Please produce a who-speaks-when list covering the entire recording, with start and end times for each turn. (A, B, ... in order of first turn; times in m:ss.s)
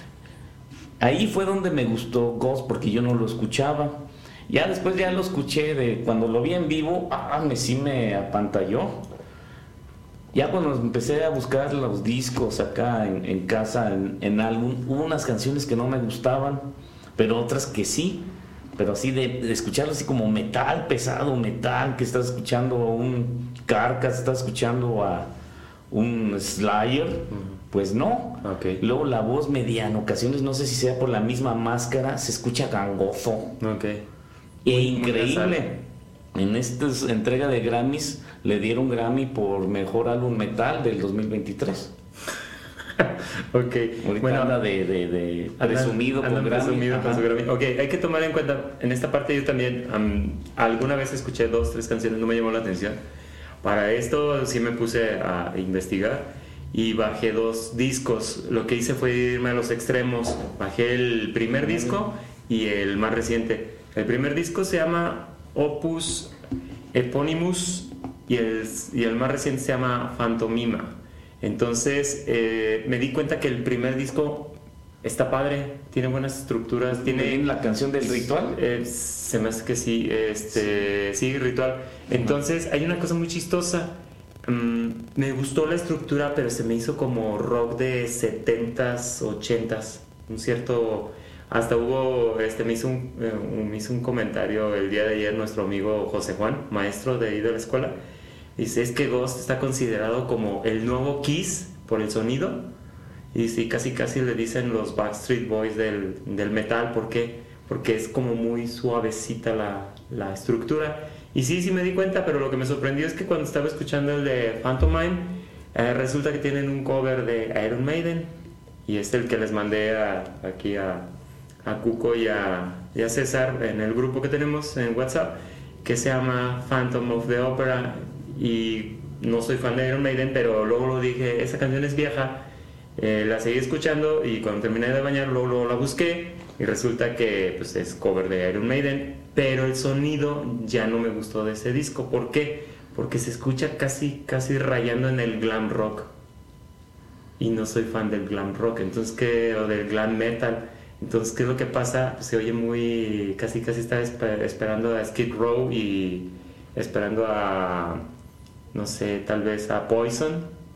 0:01.0-0:09.0 A
0:10.3-0:25.3 A
0:25.9-0:33.6 A
0:27.3-0:27.6 B
0:28.4-0:28.8 B
0:33.6-0:34.0 B
0:34.6-0:35.8 A
0:34.7-0:35.7 B
0:36.3-0:41.9 A
0:43.0-0:44.6 B
0:44.0-0:47.2 A
0:45.6-0:53.0 B
0:53.6-1:06.3 B
1:06.9-1:17.5 B
1:16.9-1:18.6 A
1:18.0-1:38.0 B
1:38.6-1:42.7 B
1:43.3-1:58.3 B
1:58.9-2:01.1 B
2:01.6-2:26.1 B
2:27.4-2:38.0 B
2:38.7-2:40.5 B